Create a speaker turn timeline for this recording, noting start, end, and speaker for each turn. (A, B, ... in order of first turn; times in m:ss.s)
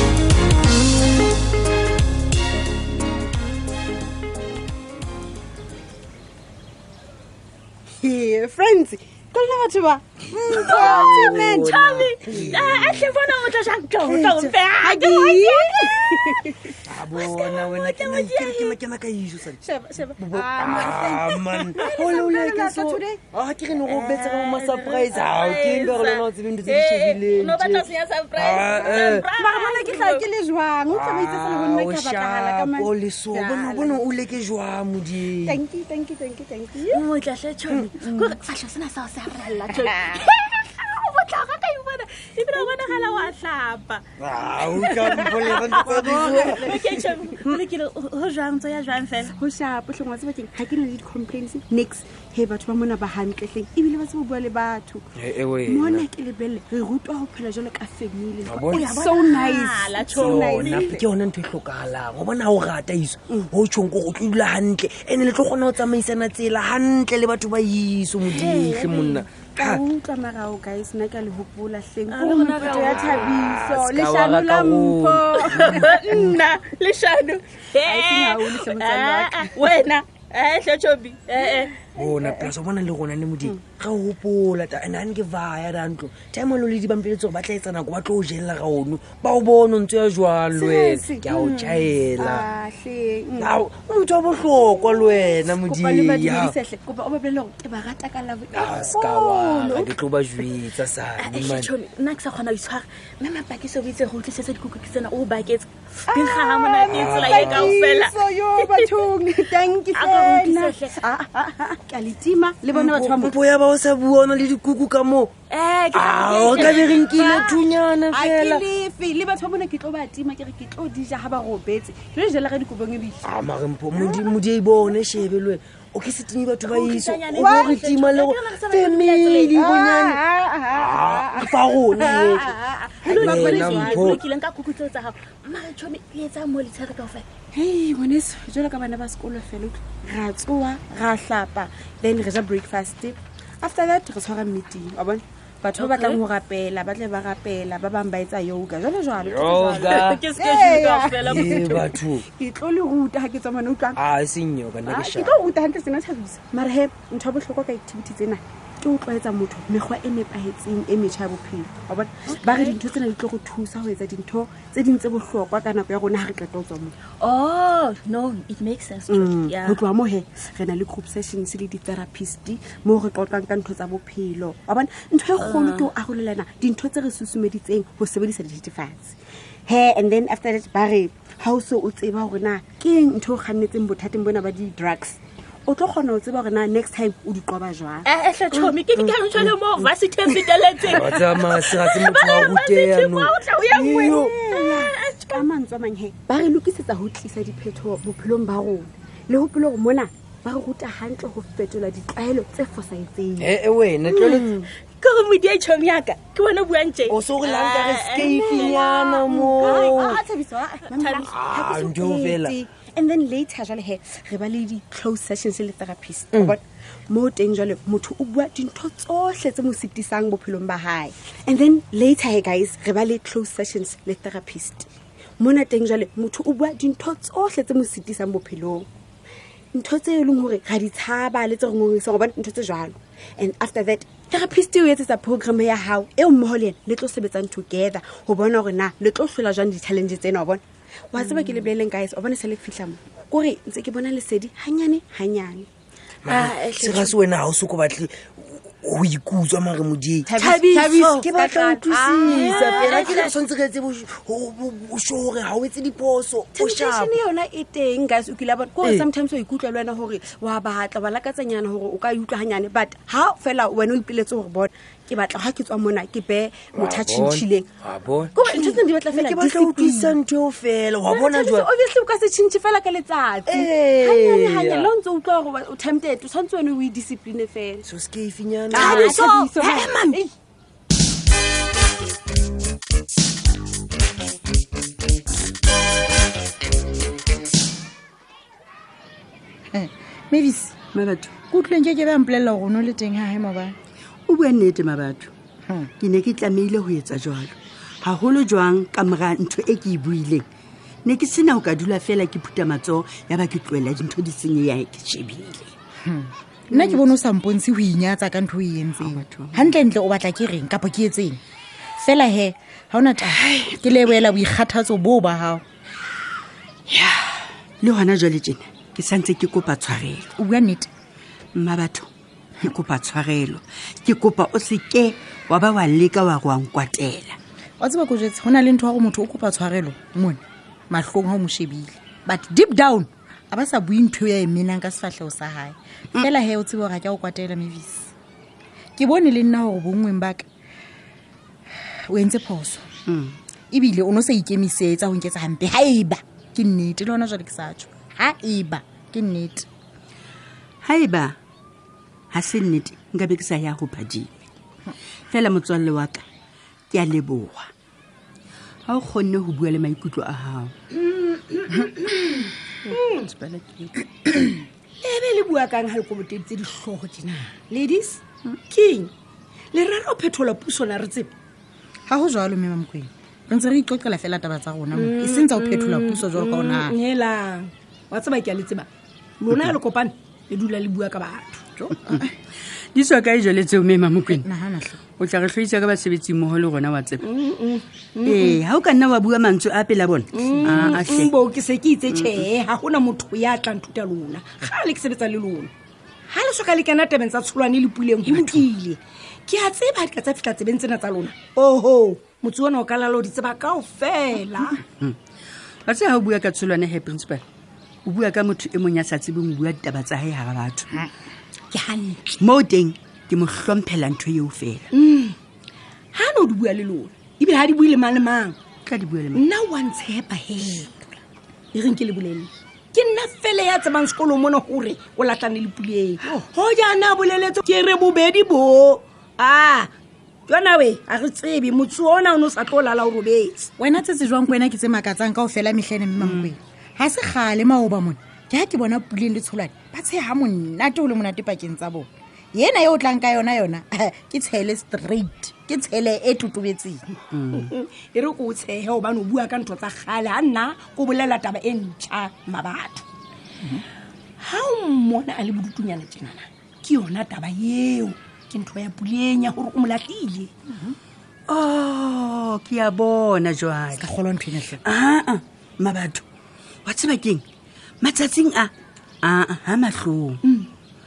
0:08.0-0:13.4 A
0:10.5-0:13.2 B
0:10.7-0:15.8 C
0:14.0-0:16.8 A
0:16.9-0:19.6 B
0:17.2-0:18.8 C
0:19.6-0:23.2 A
0:20.2-0:29.3 B
0:23.9-0:24.6 A
0:24.3-0:30.3 C
0:28.8-0:34.1 A
0:30.9-0:35.6 B
0:35.4-0:37.1 A
0:36.9-0:44.0 C
0:37.8-0:38.4 A
0:39.8-0:40.2 A
0:42.5-0:43.3 A
0:44.2-0:46.8 B
0:44.7-0:49.3 C
0:44.9-0:47.6 A
0:49.4-0:55.0 A
0:55.2-0:56.1 B
0:55.6-1:01.0 A
0:58.4-0:59.1 B
0:58.7-1:00.9 C
1:00.1-1:09.8 B
1:08.2-1:16.2 A
1:12.1-1:13.4 C
1:12.7-1:16.4 B
1:15.3-1:21.8 C
1:17.8-1:19.9 A
1:22.0-1:32.5 B
1:22.2-1:22.5 A
1:30.5-1:33.6 A
1:33.4-1:36.6 B
1:34.5-1:40.0 A
1:38.5-1:41.8 B
1:41.2-1:48.9 C
1:46.1-1:53.4 A
1:46.9-1:47.8 B
1:49.9-1:51.0 C
1:52.7-1:55.3 B
1:55.6-1:57.6 C
1:55.9-1:58.6 B
1:56.3-1:57.2 A
1:58.1-2:03.3 A
2:03.2-2:12.5 B
2:03.9-2:04.3 A
2:06.6-2:09.6 C
2:07.3-2:07.8 A
2:09.5-2:12.4 A
2:12.8-2:17.3 C
2:13.0-2:14.1 A
2:13.1-2:14.2 B
2:17.5-2:34.0 A
2:25.8-2:26.2 C
2:29.2-2:30.3 B
2:29.5-2:31.9 C
2:31.2-2:32.2 B
2:34.0-2:35.3 B
2:34.8-2:47.0 A
2:42.3-2:42.8 C
2:47.2-2:49.8 C
2:49.1-2:59.2 A
2:55.4-2:55.9 C
2:59.7-3:08.7 A
3:08.0-3:15.4 C
3:08.9-3:09.6 B
3:10.8-3:14.4 B
3:14.0-3:23.6 A
3:23.4-3:24.7 B
3:24.1-3:24.5 A
3:25.0-3:30.0 C
3:27.1-3:30.2 B
3:28.1-3:48.9 A
3:30.9-3:31.3 C
3:31.2-3:32.6 B
3:49.7-4:05.7 A
4:06.2-4:17.2 B
4:06.3-4:07.2 A
4:10.3-4:13.3 A
4:10.4-4:10.8 C
4:12.2-4:13.3 C
4:16.5-4:27.7 A
4:18.8-4:19.1 B
4:26.7-4:31.7 B
4:28.3-4:30.2 A
4:31.0-4:37.9 A
4:33.5-4:34.9 B
4:37.8-4:39.2 B
4:38.7-4:40.2 A
4:38.7-4:40.2 D
4:49.7-4:50.8 E
4:50.9-4:51.3 F
4:51.5-4:53.8 E
4:54.3-4:55.3 F
4:55.7-4:55.9 E
4:56.0-5:00.5 F
5:01.0-5:05.7 F
5:06.0-5:11.4 E
5:06.7-5:07.0 F
5:09.0-5:09.8 F
5:12.0-5:15.6 E
5:13.3-5:13.8 F
5:16.9-5:20.3 F
5:20.4-5:20.9 E
5:21.6-5:22.1 F
5:22.6-5:27.4 F
5:27.8-5:38.1 E
5:39.0-5:40.5 E
5:42.1-5:42.9 E
5:43.1-5:43.4 F
5:43.7-5:49.7 E
5:50.8-5:51.4 F
5:52.3-5:54.3 F
5:55.3-5:56.2 F
5:56.9-5:57.7 F
5:58.9-6:00.7 F
6:01.7-6:02.0 F
6:02.8-6:04.0 F
6:02.9-6:03.3 D
6:05.0-6:09.1 D
6:09.7-6:11.3 D
6:12.1-6:17.0 E
6:14.9-6:18.9 D
6:19.4-6:21.6 D
6:21.8-6:22.3 E
6:22.9-6:24.5 F
6:24.3-6:25.0 E
6:25.2-6:27.3 F
6:27.2-6:28.6 D
6:28.2-6:31.3 F
6:30.3-6:35.7 D
6:30.6-6:30.9 E
6:32.1-6:32.4 F
6:36.3-6:44.8 D
6:38.3-6:38.7 F
6:45.9-6:47.4 F
6:48.0-6:51.0 F
6:51.7-6:52.4 D
6:52.4-6:54.9 F
6:54.9-6:55.4 D
6:56.1-6:58.6 D
6:58.8-6:59.4 F
6:59.3-7:01.0 D
7:01.7-7:09.9 D
7:10.5-7:13.7 D
7:13.8-7:27.0 E
7:16.2-7:16.5 F
7:27.3-7:27.7 F
7:27.5-7:33.0 D
7:34.4-7:40.5 D
7:40.7-7:41.0 E
7:41.5-7:44.1 F
7:44.0-7:44.8 E
7:44.8-7:46.2 F
7:46.8-7:47.4 F
7:48.0-7:48.7 F
7:49.2-7:50.4 F
7:50.4-7:50.7 D